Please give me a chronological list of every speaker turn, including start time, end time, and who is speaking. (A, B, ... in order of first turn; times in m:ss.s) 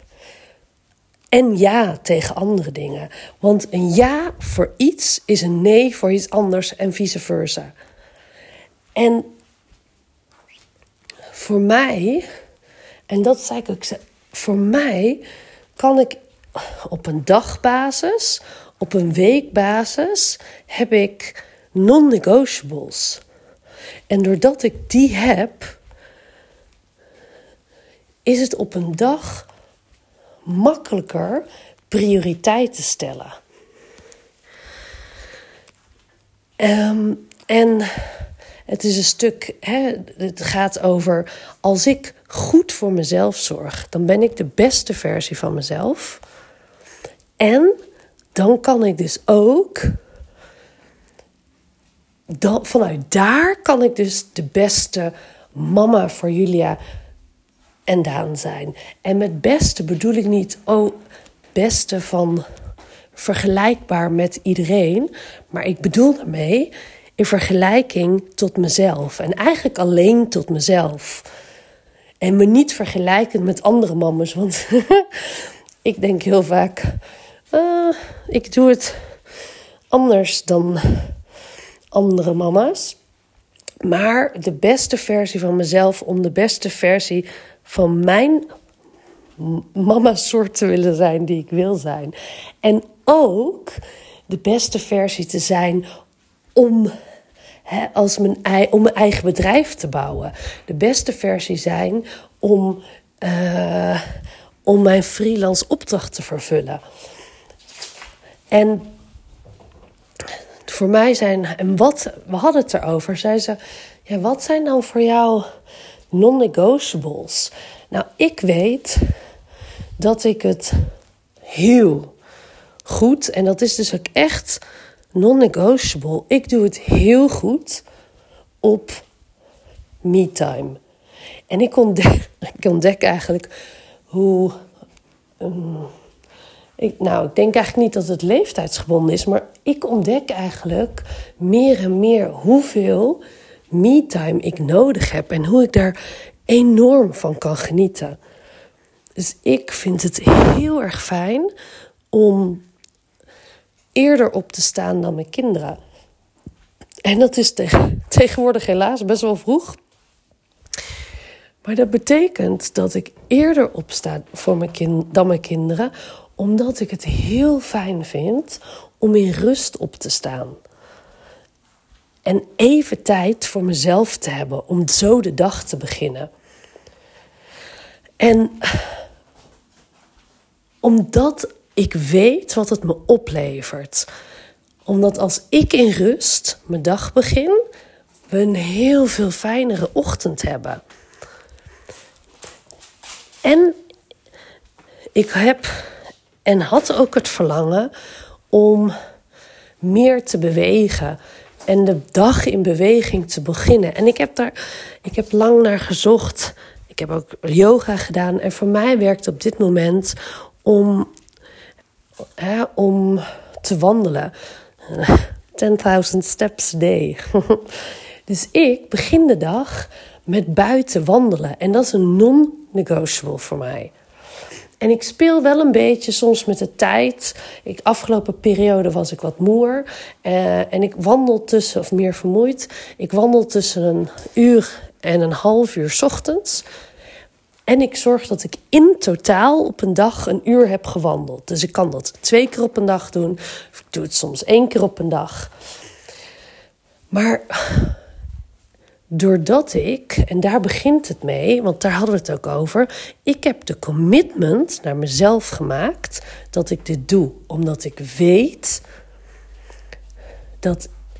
0:01.3-0:07.7 A
0:09.0-0:09.3 A
0:11.3-0:12.2 A
0:13.1-0:15.2 A
0:15.8-0:23.2 A
0:24.1-0:25.8 A
0:28.3-0:29.5 A
0:30.5-0:33.4 A
0:36.6-0:46.2 A
0:47.4-0:47.8 A
0:48.4-0:50.0 A
0:52.4-0:56.8 A
0:57.9-1:01.0 A
1:01.6-1:02.4 A
1:03.2-1:11.3 A
1:12.2-1:17.0 A
1:17.5-1:19.1 A
1:19.9-1:21.1 A
1:21.9-1:23.0 A
1:23.8-1:28.5 A
1:29.4-1:35.9 A
1:36.6-1:36.9 A
1:37.7-1:44.0 A
1:44.7-1:46.8 A
1:48.5-1:48.9 A
1:50.7-1:55.5 A
1:56.1-1:59.1 A
2:00.0-2:00.9 A
2:01.5-2:02.1 A
2:02.9-2:04.6 A
2:05.2-2:07.8 A
2:08.6-2:09.0 A
2:10.0-2:10.8 A
2:11.5-2:13.5 A
2:14.1-2:14.6 A
2:15.4-2:15.9 A
2:16.8-2:23.2 A
2:23.7-2:26.0 A
2:26.5-2:28.2 A
2:29.2-2:31.5 A
2:32.1-2:32.7 A
2:34.0-2:35.8 A
2:37.0-2:39.8 A
2:41.6-2:50.6 A
2:52.3-2:56.3 A
2:58.2-2:59.0 A
3:00.8-3:04.1 A
3:04.9-3:07.6 A
3:08.3-3:10.8 A
3:13.4-3:13.8 A
3:15.2-3:15.9 A
3:16.5-3:17.9 A
3:18.5-3:18.9 A
3:19.8-3:31.1 A
3:32.4-3:34.3 A
3:34.9-3:43.9 A
3:44.8-3:56.6 A
3:57.7-4:05.5 A
4:07.1-4:08.0 A
4:09.1-4:18.8 A
4:20.6-4:20.9 A